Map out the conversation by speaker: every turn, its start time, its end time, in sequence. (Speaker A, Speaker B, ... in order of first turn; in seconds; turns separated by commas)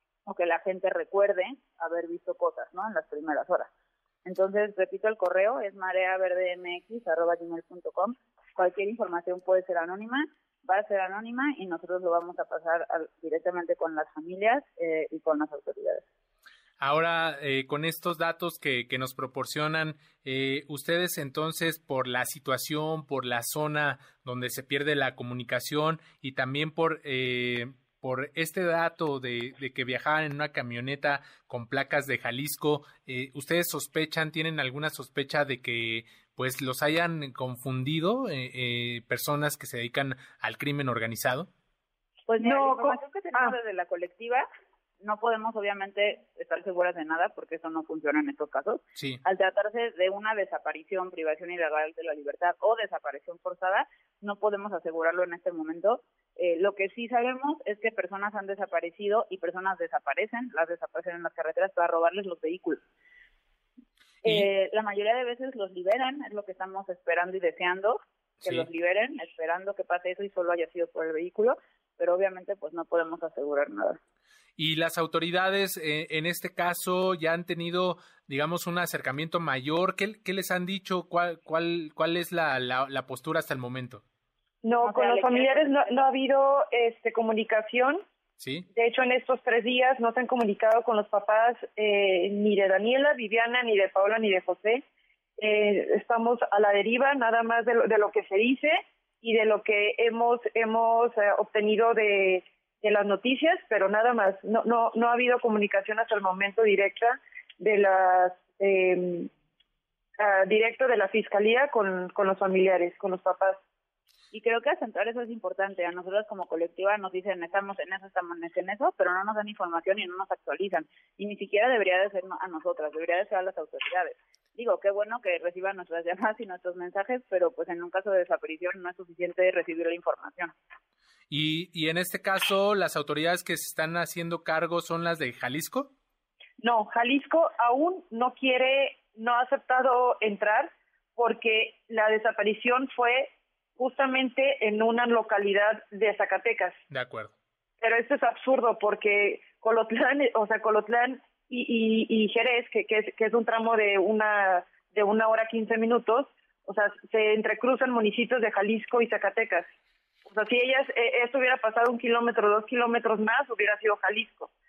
Speaker A: 0.2-3.7, Speaker A: 4.2-16.0, Speaker B: 16.8-41.5, Speaker A: 42.3-44.5, Speaker C: 42.4-43.5, Speaker A: 45.0-62.8, Speaker A: 64.2-74.0, Speaker B: 68.4-68.7, Speaker B: 74.6-84.0, Speaker C: 84.6-88.0, Speaker A: 84.8-86.0, Speaker B: 88.4-88.7, Speaker C: 88.7-94.8, Speaker C: 95.4-109.3, Speaker C: 110.2-113.6, Speaker A: 114.3-130.5, Speaker B: 131.3-135.9, Speaker C: 136.6-146.8, Speaker B: 146.9-147.3, Speaker C: 147.8-159.7, Speaker C: 160.3-164.5